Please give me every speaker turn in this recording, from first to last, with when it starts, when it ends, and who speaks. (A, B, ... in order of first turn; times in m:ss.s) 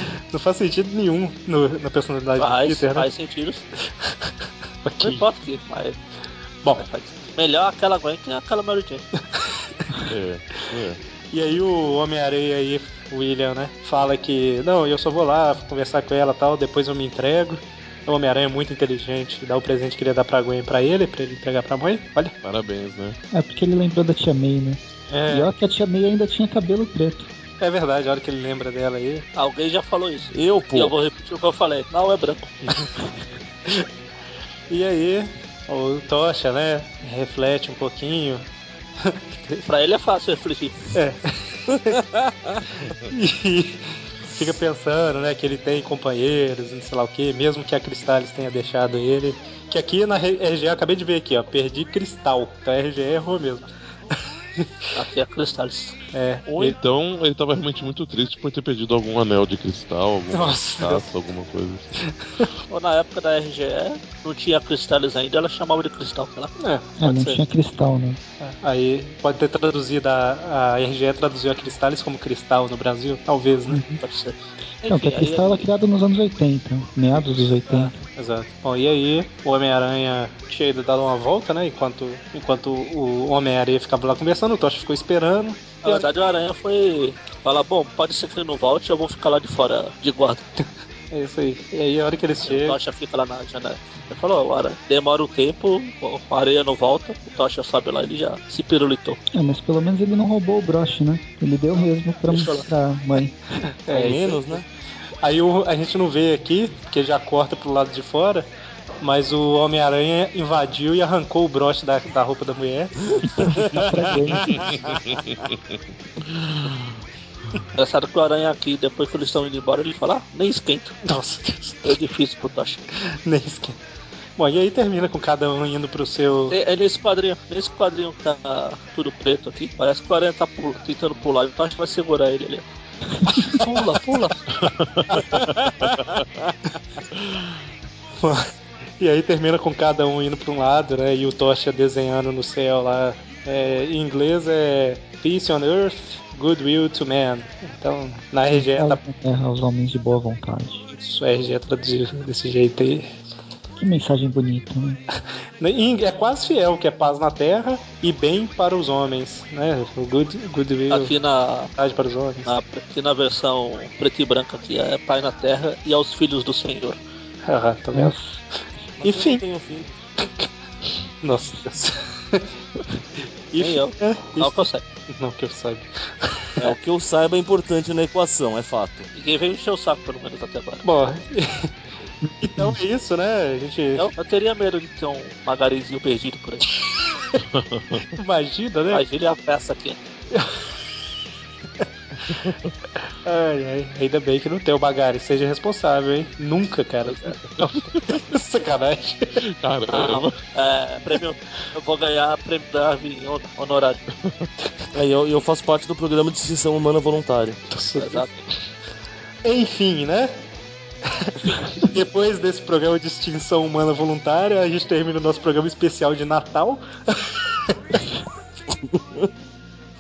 0:00.2-0:03.1 A
0:02.4-0:03.6 B
0:04.0-0:04.3 A
0:04.8-0:05.2 A
0:05.0-0:06.0 B
0:06.8-0:09.0 B
0:10.0-0:11.0 C
0:11.3-0:22.3 A
0:22.4-0:23.2 C
0:23.3-0:27.3 D
0:25.1-0:25.5 A
0:27.6-0:29.2 A
0:29.4-0:32.5 B
0:30.3-0:30.9 E
0:34.7-0:38.4 A
0:39.0-0:39.6 A
0:39.6-0:40.7 B
0:40.9-0:42.0 A
0:41.9-0:42.6 E
0:43.1-0:53.7 A
0:54.6-0:54.9 A
0:54.9-0:55.9 B
0:56.1-0:56.8 A
0:56.5-1:01.9 C
1:00.3-1:01.0 A
1:02.7-1:06.5 B
1:06.6-1:07.0 A
1:07.0-1:08.2 D
1:07.0-1:07.4 B
1:08.4-1:13.8 A
1:13.7-1:14.0 D
1:14.0-1:15.7 B
1:14.8-1:18.0 D
1:18.2-1:26.1 A
1:25.8-1:30.4 B
1:31.1-1:32.8 A
1:32.4-1:39.2 B
1:39.3-1:43.4 D
1:41.8-1:42.7 B
1:43.9-1:44.6 A
1:43.9-1:44.6 E
1:45.2-1:48.5 A
1:49.0-1:53.5 A
1:53.4-1:54.6 D
1:54.1-1:54.5 A
1:56.3-1:56.8 C
1:57.7-2:00.9 B
2:01.0-2:01.8 A
2:01.8-2:02.9 B
2:03.1-2:03.8 A
2:04.4-2:06.5 A
2:06.5-2:12.6 B
2:13.2-2:13.5 D
2:13.4-2:13.8 A
2:13.5-2:14.4 B
2:14.6-2:16.0 C
2:16.2-2:16.5 E
2:18.2-2:18.5 A
2:19.0-2:29.0 A
2:28.5-2:30.9 D
2:30.9-2:33.1 A
2:33.8-2:35.0 D
2:35.6-2:41.2 A
2:40.9-2:41.7 B
2:41.8-2:42.5 A
2:42.4-2:47.0 B
2:47.4-2:48.2 A
2:47.9-2:48.4 D
2:49.0-2:49.9 E
2:49.0-2:49.4 A
2:51.2-2:52.5 A
2:53.5-2:56.6 A
2:53.6-2:54.8 B
2:56.6-2:59.1 E
2:59.1-3:00.8 B
3:00.8-3:01.7 A
3:02.3-3:02.7 D
3:02.4-3:04.1 A
3:04.0-3:06.6 B
3:07.5-3:08.0 C
3:08.1-3:09.0 A
3:08.9-3:10.0 B
3:10.3-3:10.7 A
3:13.2-3:19.4 A
3:17.0-3:17.4 B
3:17.9-3:18.2 C
3:19.4-3:20.4 C
3:19.9-3:24.0 B
3:24.9-3:27.6 E
3:27.7-3:28.3 A
3:28.0-3:28.4 B
3:29.4-3:30.3 A
3:31.0-3:38.0 A
3:38.7-3:39.3 E